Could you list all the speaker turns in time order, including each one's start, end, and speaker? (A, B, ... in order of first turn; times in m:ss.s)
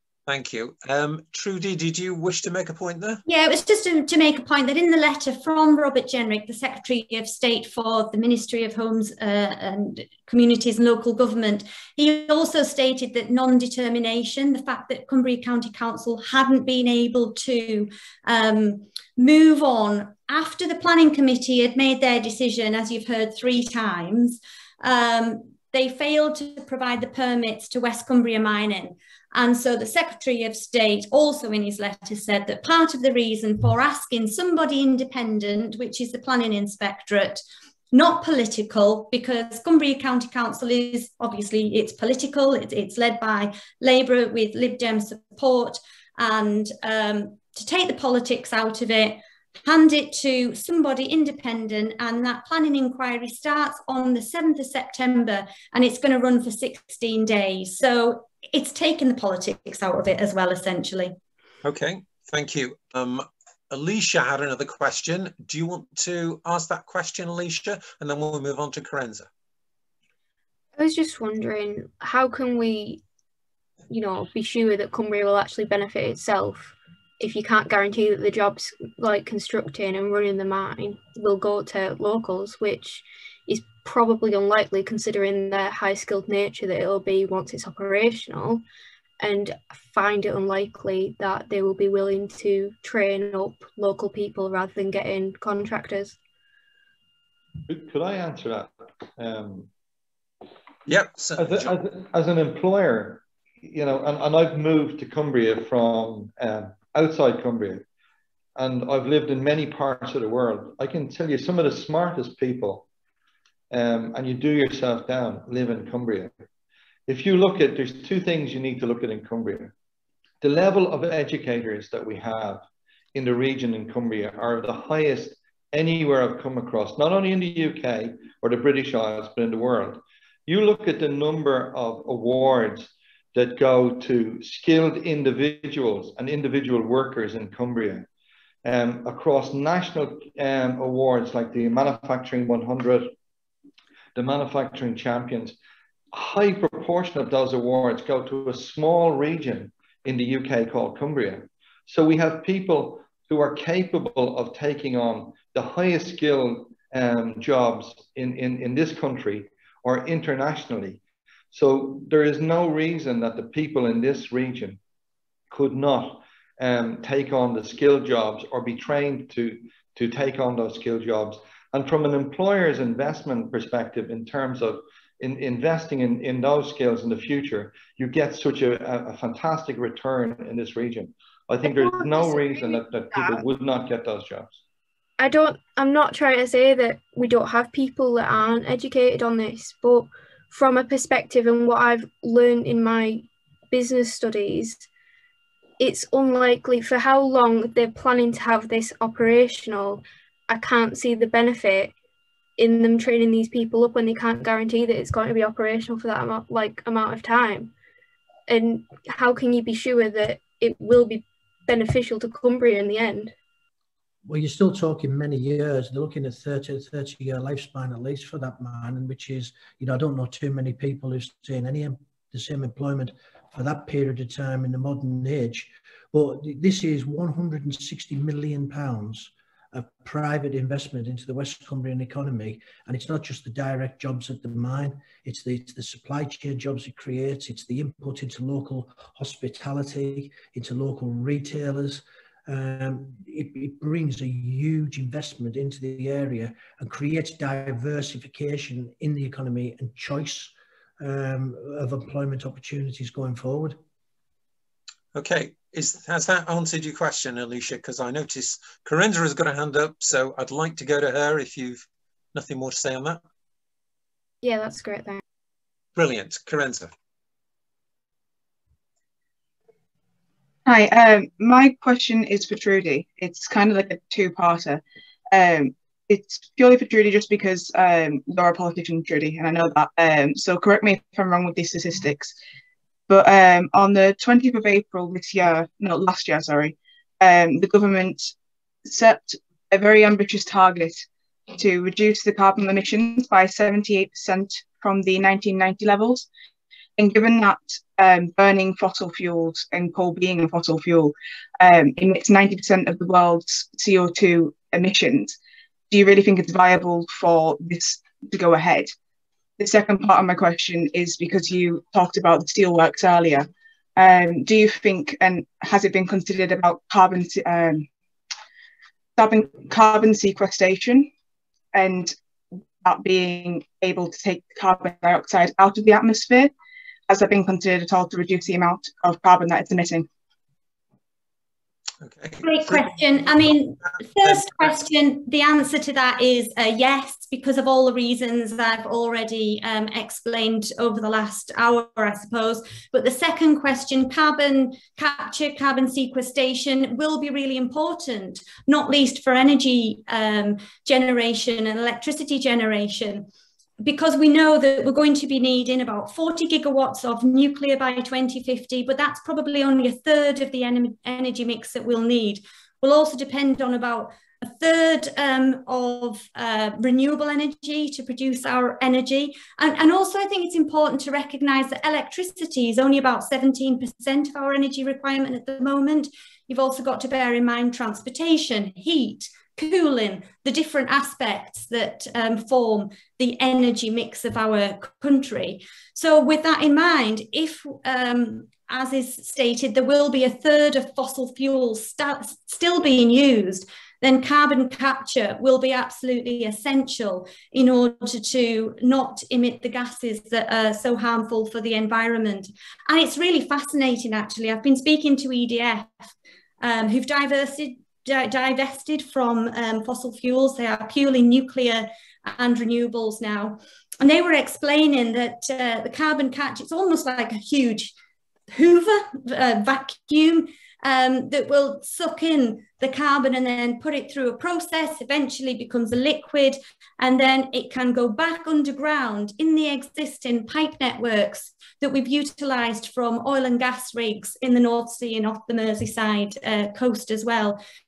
0:00.3-0:03.2 A
0:03.3-1:01.2 B
1:01.6-1:09.3 A
1:10.8-1:13.0 C
1:13.9-1:28.6 C
1:29.2-1:36.2 C
1:37.7-1:39.7 D
1:40.9-1:41.8 A
1:41.4-1:47.8 D
1:48.6-1:52.9 D
1:53.7-1:56.3 D
1:57.1-1:59.7 D
2:00.4-2:02.6 D
2:03.2-2:18.1 D
2:18.6-2:23.1 D
2:24.2-2:25.6 D
2:26.1-2:41.0 D
2:41.5-2:44.8 D
2:45.5-3:04.6 D
3:01.8-3:02.7 E
3:05.2-3:14.9 C
3:15.8-3:21.9 C
3:22.6-3:27.7 C
3:28.5-3:33.3 C
3:34.2-4:13.8 F
4:15.1-4:21.8 A
4:22.4-4:23.2 A
4:24.4-4:25.2 C
4:26.0-4:26.9 A
4:30.7-4:42.4 E
4:43.1-4:48.3 E
4:48.8-4:56.3 E
4:57.0-5:05.4 E
5:05.9-5:08.9 E
5:09.6-5:17.9 E
5:19.2-5:21.1 E
5:21.7-5:26.5 E
5:27.1-5:30.1 E
5:32.0-5:34.7 A
5:32.4-5:53.3 B
5:53.8-6:57.9 B
6:58.5-7:17.6 B